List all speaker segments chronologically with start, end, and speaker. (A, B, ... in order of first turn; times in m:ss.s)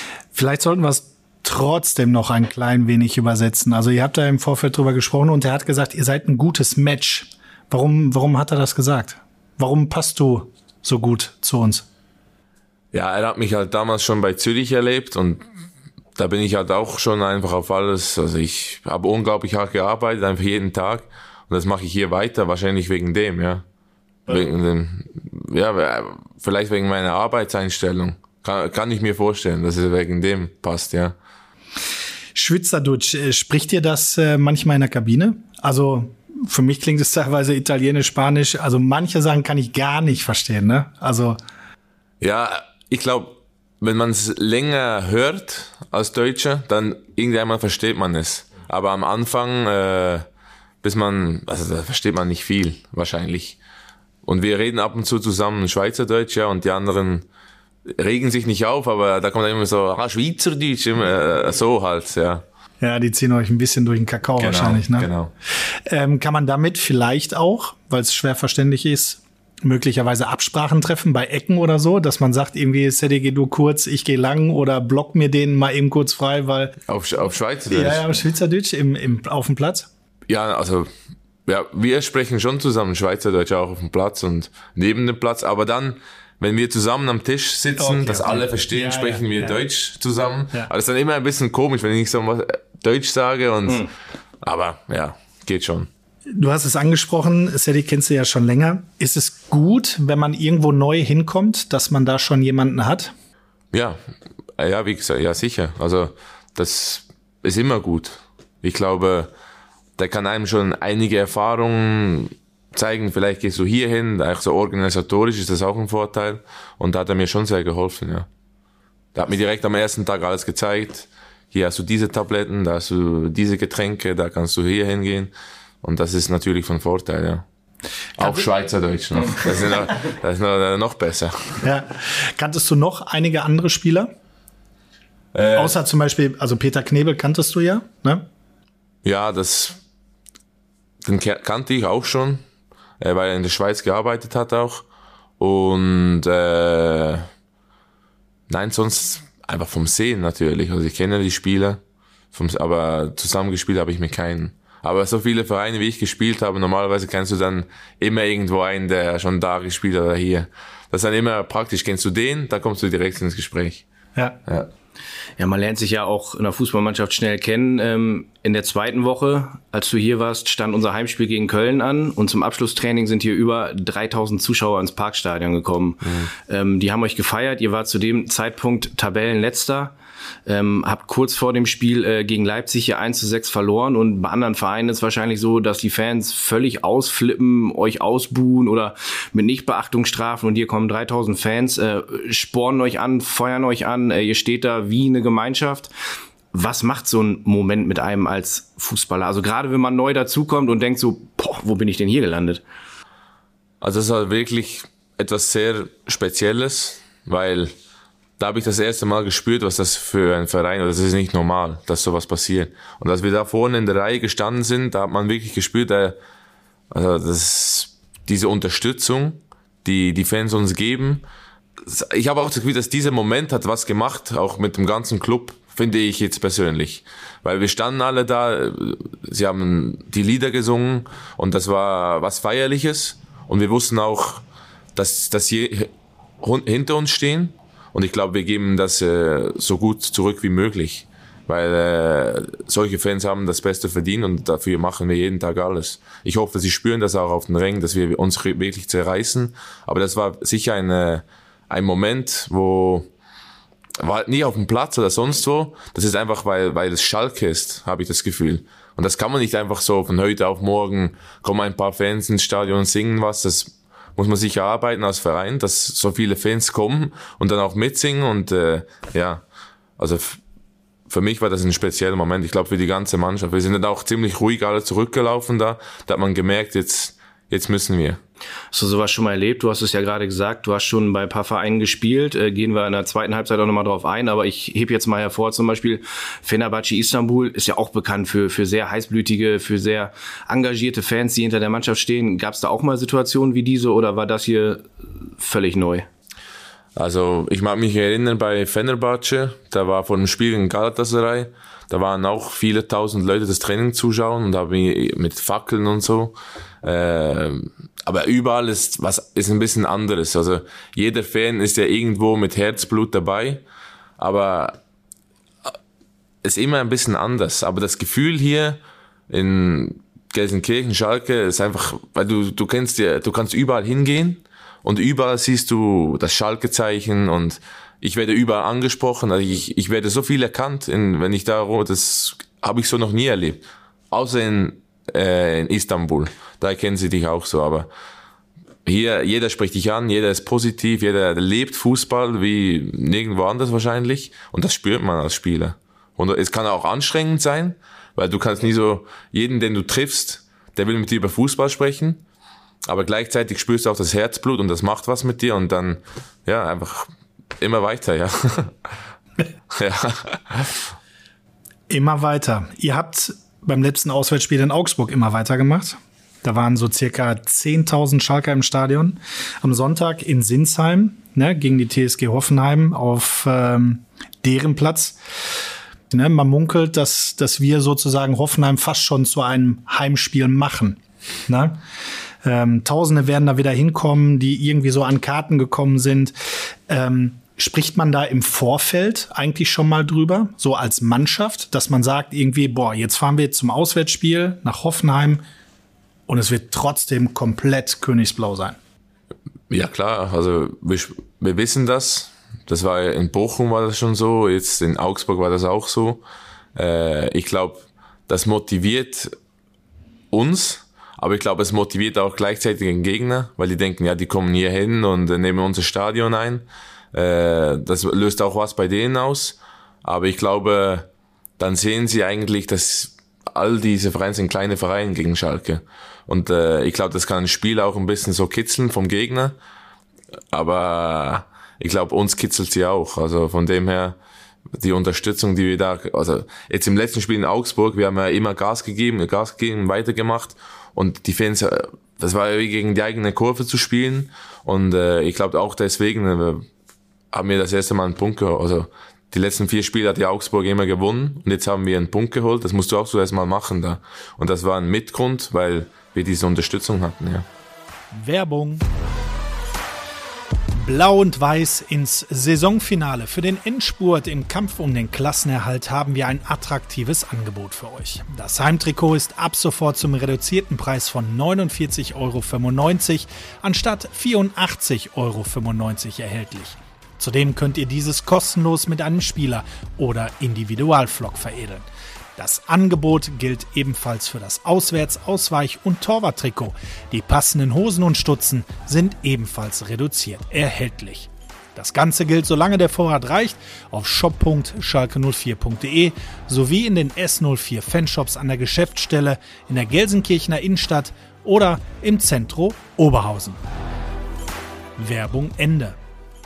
0:00.3-0:11.8 A
0:12.9-0:15.4 B
0:16.2-0:23.6 B
0:24.3-0:31.1 B
0:32.3-0:41.4 A
0:42.2-0:50.2 B
0:50.8-0:53.6 B
0:54.2-0:57.2 B
0:58.0-1:02.4 B
1:02.8-1:05.1 A
1:04.4-1:05.3 B
1:05.6-1:16.8 A
1:16.9-1:18.2 B
1:17.7-1:19.9 A
1:20.3-1:20.9 B
1:21.4-1:33.8 B
1:27.8-1:29.6 A
1:34.4-1:35.9 B
1:36.3-1:43.1 A
1:43.7-1:44.0 B
1:44.6-1:49.3 B
1:50.0-1:58.3 B
1:59.1-2:07.4 B
2:08.2-2:11.6 B
2:11.6-2:14.1 A
2:15.3-2:15.8 B
2:15.5-2:18.2 A
2:19.0-2:19.8 B
2:21.0-2:22.4 B
2:23.0-2:24.8 B
2:25.4-2:27.3 B
2:28.5-2:31.8 B
2:32.3-2:43.8 B
2:45.4-2:59.9 C
2:56.0-2:56.3 B
3:00.4-3:15.9 C
3:16.5-3:22.6 C
3:23.8-3:27.7 B
3:28.4-3:36.2 B
3:36.9-3:41.2 B
3:41.8-3:54.4 B
3:54.9-4:13.1 B
4:14.0-4:29.4 B
4:30.0-4:30.4 B
4:31.1-4:38.2 B
4:38.7-4:56.1 C
4:57.0-5:13.6 B
5:14.2-5:14.8 B
5:16.4-5:37.9 B
5:38.8-5:52.2 B
5:52.8-5:58.7 B
5:59.7-6:00.9 B
6:01.9-6:15.2 A
6:16.1-6:21.8 A
6:22.4-6:26.3 A
6:26.9-6:35.4 A
6:36.3-6:38.8 A
6:39.7-6:46.2 B
6:46.8-6:49.3 B
6:50.3-7:01.1 B
7:01.6-7:09.6 B
7:10.5-7:14.2 B
7:14.8-7:26.6 B
7:27.3-7:37.4 B
7:38.1-7:38.8 A
7:40.8-8:23.6 A
8:25.0-8:26.0 A